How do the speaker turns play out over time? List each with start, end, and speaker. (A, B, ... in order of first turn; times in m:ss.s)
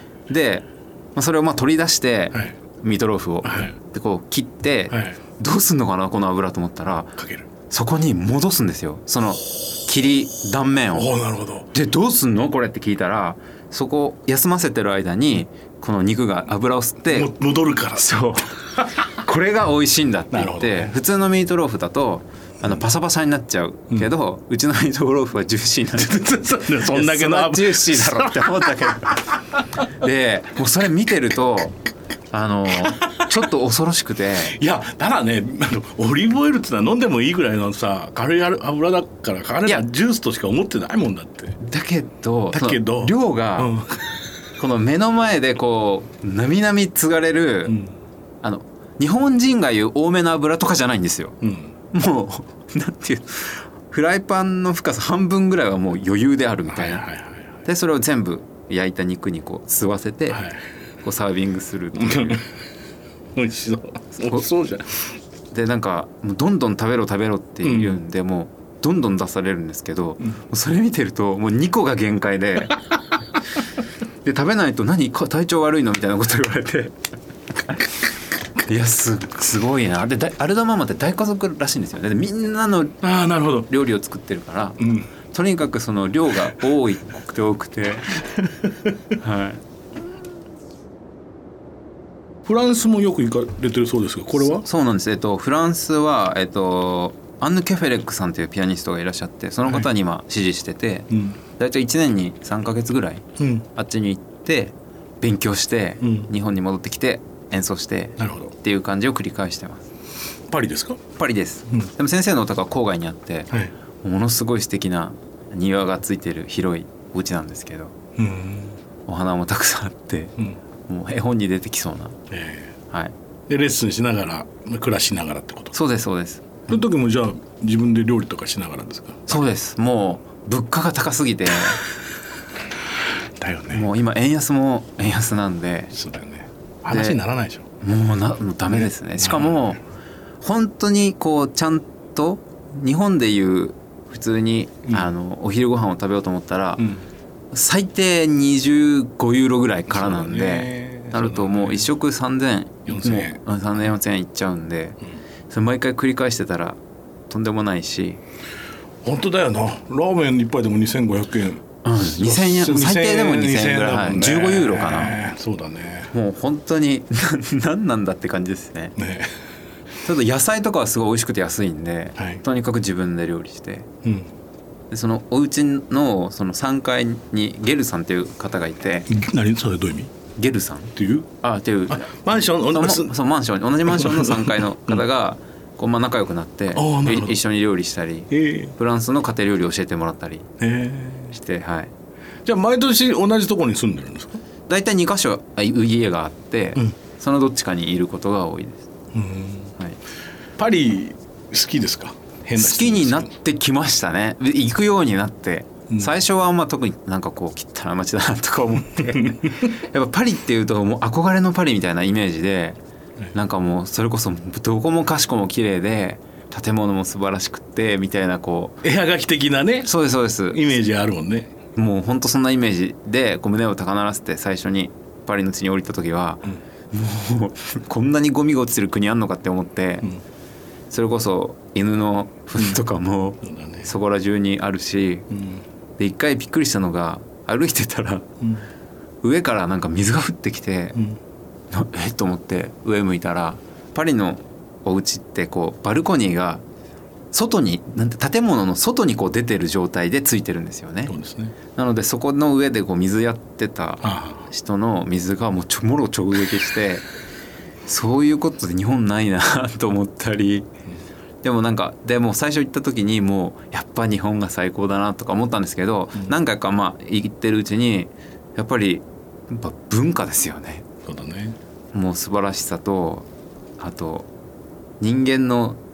0:00.3-0:07.2 A
0:03.4-0:03.7 B
0:04.9-0:05.2 B
0:07.2-0:07.5 B
0:07.7-0:11.1 A
0:10.9-0:11.7 B
0:11.7-0:17.3 A
0:17.1-0:18.2 B
0:18.0-0:29.4 A
0:20.3-0:21.0 B
0:26.0-0:29.0 B
0:29.9-0:31.8 A
0:32.3-0:34.6 A
0:34.5-0:41.6 B
0:41.6-0:43.7 A
0:42.5-0:44.2 B
0:44.6-0:47.8 A
0:47.7-0:47.9 B
0:48.4-0:51.4 A
0:51.4-0:51.7 B
0:51.9-0:57.1 A
0:56.7-0:57.4 B
0:57.6-1:00.5 A
1:00.3-1:00.6 B
1:01.0-1:02.4 A
1:02.0-1:02.4 B
1:03.4-1:05.2 B
1:05.5-1:12.8 A
1:07.6-1:08.0 B
1:14.2-1:17.0 A
1:18.6-1:23.0 A
1:23.0-1:23.7 B
1:23.7-1:28.1 A
1:24.8-1:25.1 B
1:29.2-1:29.6 A
1:32.4-1:34.6 B
1:34.5-1:49.9 A
1:41.1-1:41.4 B
1:43.4-1:43.6 B
1:46.0-1:46.3 B
1:48.2-1:48.5 B
1:50.5-1:51.0 B
1:51.2-1:53.5 A
1:54.0-1:58.0 A
1:58.2-1:58.8 B
1:59.1-2:00.4 A
2:00.9-2:02.2 A
2:02.3-2:02.7 B
2:03.5-2:05.8 B
2:05.7-2:06.7 A
2:06.7-2:09.4 B
2:09.3-2:11.8 A
2:13.4-2:13.8 B
2:13.7-2:15.9 A
2:15.9-2:17.7 B
2:16.9-2:17.2 A
2:17.8-2:19.8 A
2:18.7-2:19.8 B
2:20.4-2:26.9 A
2:27.5-2:38.2 A
2:29.9-2:31.9 B
2:32.9-2:33.4 B
2:39.0-2:46.1 B
2:41.8-2:45.2 A
2:46.1-2:49.0 A
2:49.0-2:49.3 B
2:50.0-2:53.9 A
2:52.2-2:52.4 B
2:54.0-2:54.3 B
2:54.9-2:59.1 A
2:59.1-3:00.1 B
3:00.4-3:10.5 A
3:01.0-3:01.3 B
3:01.9-3:03.2 B
3:03.9-3:05.0 B
3:06.7-3:07.4 B
3:08.3-3:08.7 B
3:10.6-3:11.4 B
3:11.3-3:11.9 A
3:12.4-3:14.4 B
3:14.7-3:18.9 A
3:19.1-3:19.7 B
3:20.6-3:23.3 B
3:22.6-3:32.8 A
3:29.0-3:29.5 B
3:33.3-3:38.8 A
3:38.8-3:39.9 B
3:39.8-3:40.7 A
3:40.5-3:41.5 B
3:41.8-3:50.1 A
3:50.9-3:55.3 A
3:53.4-3:53.9 B
3:55.3-3:55.6 B
3:56.0-3:58.3 A
3:59.2-4:01.0 A
4:01.7-4:06.6 A
4:07.3-4:11.1 A
4:11.1-4:11.6 B
4:11.7-4:17.1 A
4:14.0-4:14.4 B
4:17.9-4:20.7 A
4:21.4-4:30.9 A
4:31.0-4:31.6 B
4:31.9-4:33.3 A
4:33.8-4:34.3 A
4:35.0-4:35.8 A